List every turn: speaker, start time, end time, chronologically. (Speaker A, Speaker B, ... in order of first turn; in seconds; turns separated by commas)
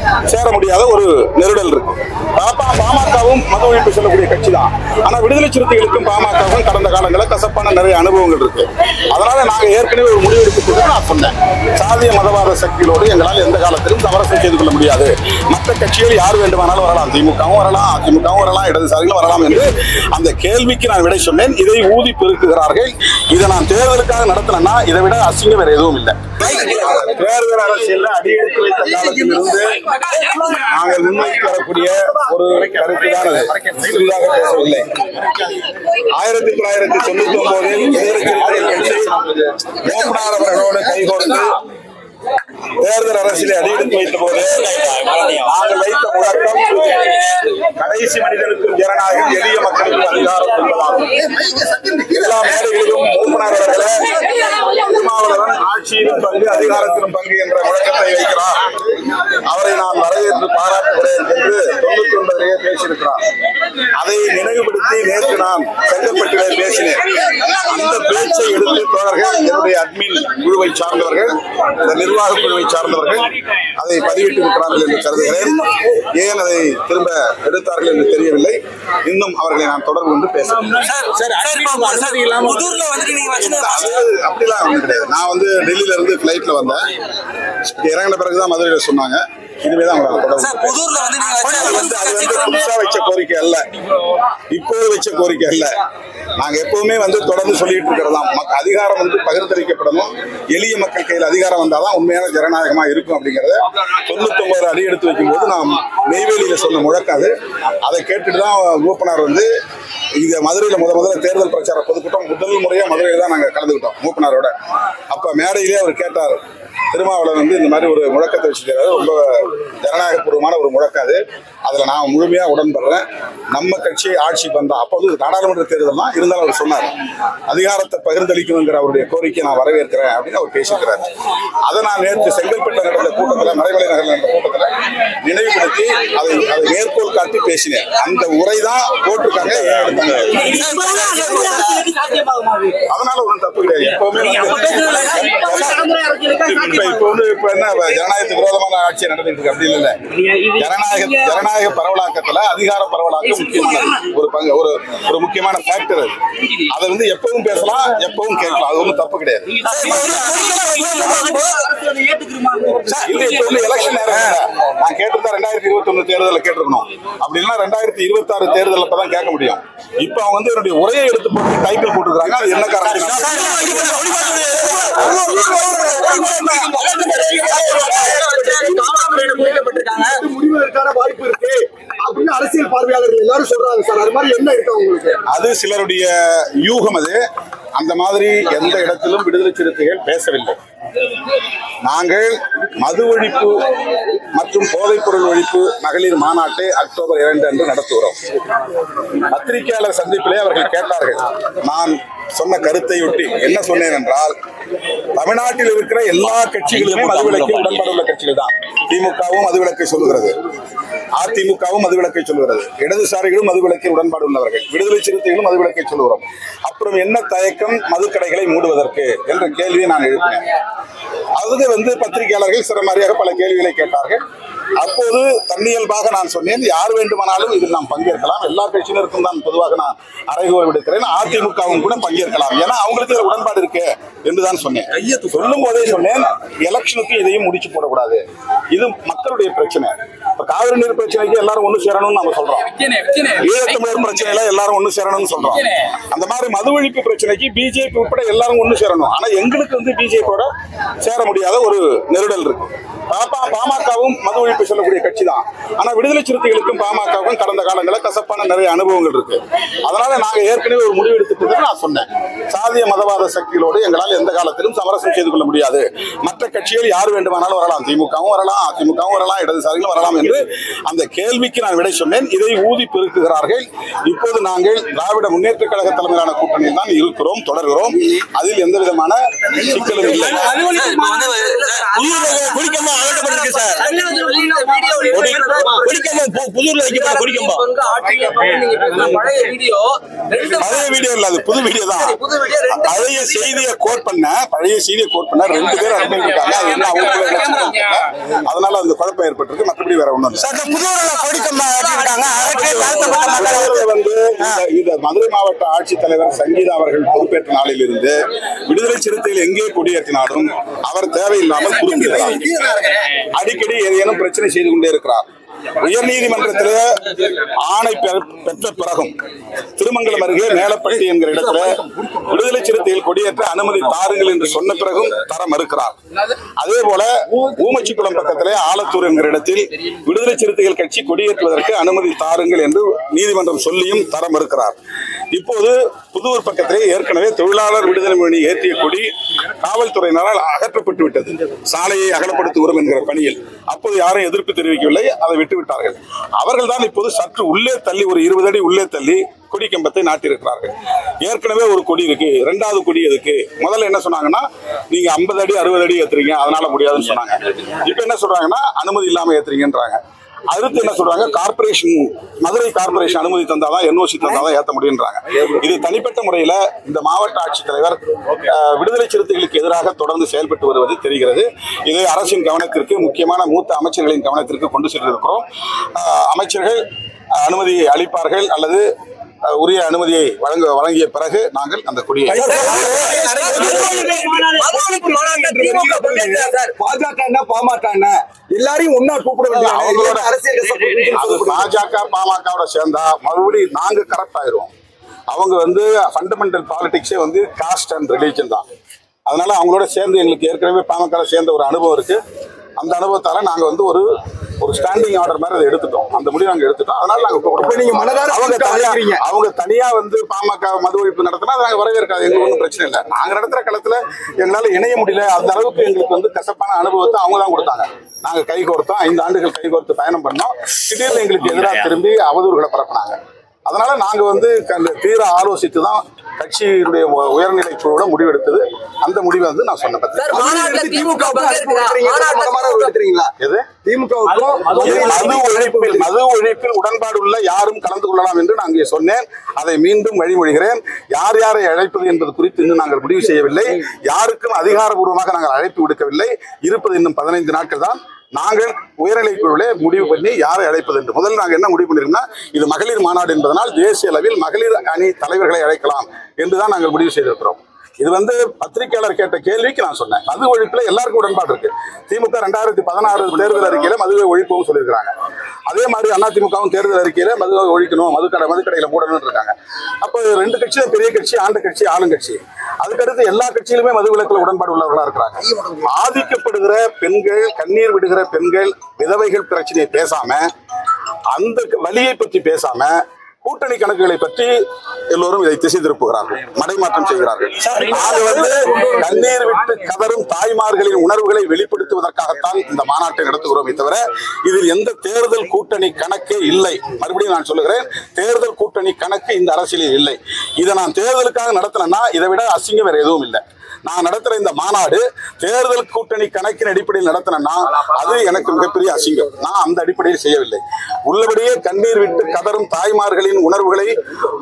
Speaker A: 0.3-34.9, Speaker A: 36.0-41.5, Speaker A: 42.8-51.2, Speaker B: 44.6-45.5, Speaker A: 52.0-58.6, Speaker A: 59.5-63.2, Speaker A: 64.0-80.9, Speaker B: 80.7-84.0, Speaker A: 83.4-86.8, Speaker A: 87.7-93.7, Speaker B: 90.4-92.7, Speaker A: 94.5-95.7, Speaker A: 96.3-107.3, Speaker A: 107.8-109.5, Speaker A: 110.2-114.5, Speaker A: 115.1-116.4, Speaker A: 116.9-126.9, Speaker A: 127.5-131.1, Speaker A: 131.6-140.7, Speaker B: 140.4-142.1, Speaker C: 140.6-142.7, Speaker A: 142.8-159.9, Speaker C: 145.9-146.3, Speaker B: 159.6-161.5, Speaker C: 159.8-160.3, Speaker C: 161.1-162.7, Speaker D: 161.9-162.8, Speaker A: 162.9-174.0, Speaker B: 164.1-164.3, Speaker B: 172.9-179.3, Speaker D: 174.9-176.8, Speaker C: 176.0-176.4, Speaker C: 177.4-180.2, Speaker D: 177.5-185.2, Speaker A: 185.3-187.2, Speaker A: 187.8-190.6, Speaker A: 191.8-193.7, Speaker A: 194.3-198.2, Speaker A: 199.2-204.3, Speaker A: 205.2-210.3, Speaker B: 206.7-207.8, Speaker A: 211.2-220.4, Speaker A: 221.4-224.2, Speaker A: 224.8-250.5, Speaker A: 251.0-280.6, Speaker C: 280.3-286.3, Speaker B: 280.3-283.9, Speaker B: 285.1-287.6, Speaker D: 285.3-285.7, Speaker C: 286.8-290.8, Speaker A: 290.5-292.2, Speaker C: 291.9-293.6, Speaker A: 292.7-300.6, Speaker B: 300.4-303.8, Speaker A: 302.5-312.5, Speaker C: 302.6-303.2, Speaker D: 311.8-312.9, Speaker A: 313.3-315.2, Speaker A: 315.8-319.1, Speaker A: 319.8-325.9, Speaker A: 326.6-334.8, Speaker A: 335.3-360.0, Speaker A: 360.5-376.8, Speaker A: 377.4-378.8, Speaker A: 379.4-382.6, Speaker D: 382.4-391.7, Speaker B: 382.4-384.3, Speaker C: 382.4-386.7, Speaker A: 389.5-390.3, Speaker A: 391.1-394.7, Speaker A: 395.3-398.6, Speaker A: 399.2-402.2, Speaker A: 402.8-404.1, Speaker A: 404.6-430.4, Speaker D: 407.6-409.2, Speaker C: 430.2-432.9, Speaker D: 430.3-433.3, Speaker A: 433.4-433.7, Speaker D: 433.8-436.1, Speaker A: 434.8-465.1, Speaker A: 465.7-480.4, Speaker A: 481.3-484.5, Speaker A: 485.1-513.9, Speaker D: 487.8-489.0